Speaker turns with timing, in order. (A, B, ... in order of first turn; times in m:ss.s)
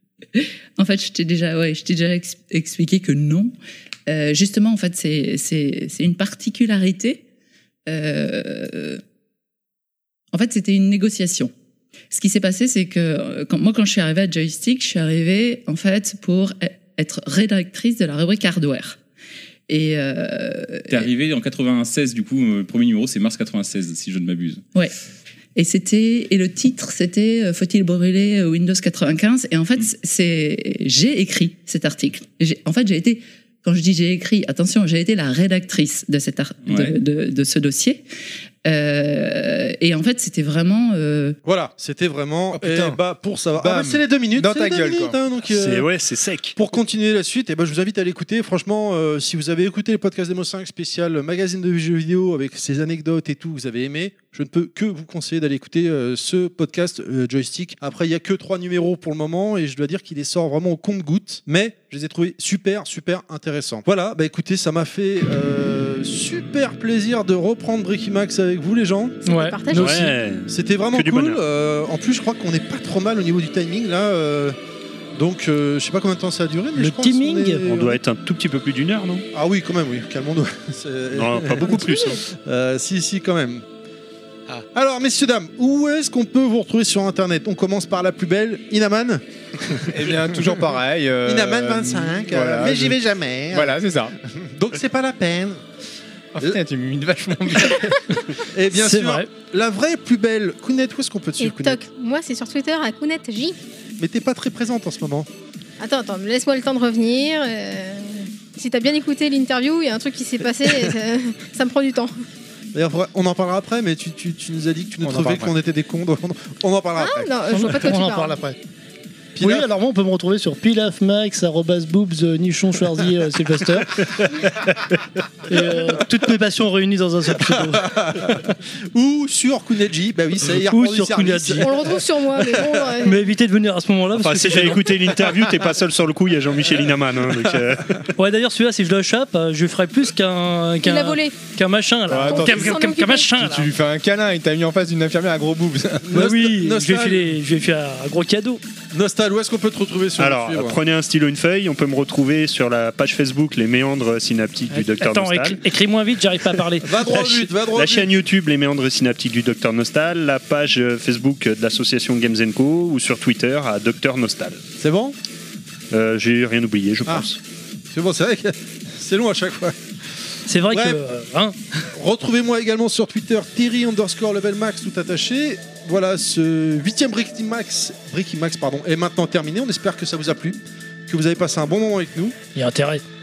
0:00.3-0:03.5 A
0:04.1-0:07.2 A
0:07.9-0:09.0 A
0:10.3-0:11.5 A
0:12.1-0:19.0 A
0:19.7-0:21.1 A
0:20.9-0:24.6 B
0:25.5-0:38.0 A
0:36.6-0:37.0 B
0:38.6-0:41.4 A
0:41.4-0:45.9 C
0:42.5-0:43.0 D
0:43.6-0:45.1 D
0:45.5-0:46.6 E
0:46.6-1:09.2 C
1:09.2-1:10.1 F
1:09.2-1:10.1 G
1:09.7-1:11.4 E
1:10.5-1:14.6 C
1:15.2-1:18.0 C
1:16.8-1:17.8 G
1:17.7-1:19.2 E
1:19.3-1:23.6 C
1:21.1-1:22.2 E
1:21.7-1:22.2 F
1:24.7-1:30.5 C
1:29.8-1:33.0 D
1:31.2-1:35.6 C
1:33.5-1:34.1 D
1:36.4-1:38.0 D
1:38.4-1:41.8 C
1:38.7-1:39.3 G
1:41.4-1:43.6 F
1:44.0-1:45.3 C
1:45.8-1:52.1 F
1:52.7-1:57.7 C
1:55.0-1:55.5 D
1:57.0-1:58.4 F
1:57.5-1:58.6 G
1:59.4-1:59.7 C
1:59.4-2:04.0 G
2:05.5-2:07.9 G
2:07.4-2:12.8 C
2:10.7-2:11.8 G
2:11.6-2:13.3 F
2:13.0-2:14.9 G
2:14.2-2:18.1 E
2:18.2-2:23.7 G
2:20.8-2:21.4 F
2:22.1-2:22.8 D
2:22.2-2:23.4 F
2:23.4-2:26.1 D
2:26.0-2:27.4 C
2:26.1-2:28.6 G
2:28.9-2:30.8 C
2:30.2-2:35.6 E
2:34.7-2:36.9 G
2:36.8-2:38.1 C
2:37.0-2:44.6 E
2:44.8-2:45.2 C
2:45.9-2:47.4 E
2:47.9-2:49.8 C
2:50.5-2:51.9 G
2:50.7-2:51.0 C
2:51.9-3:02.4 C
3:02.5-3:03.0 G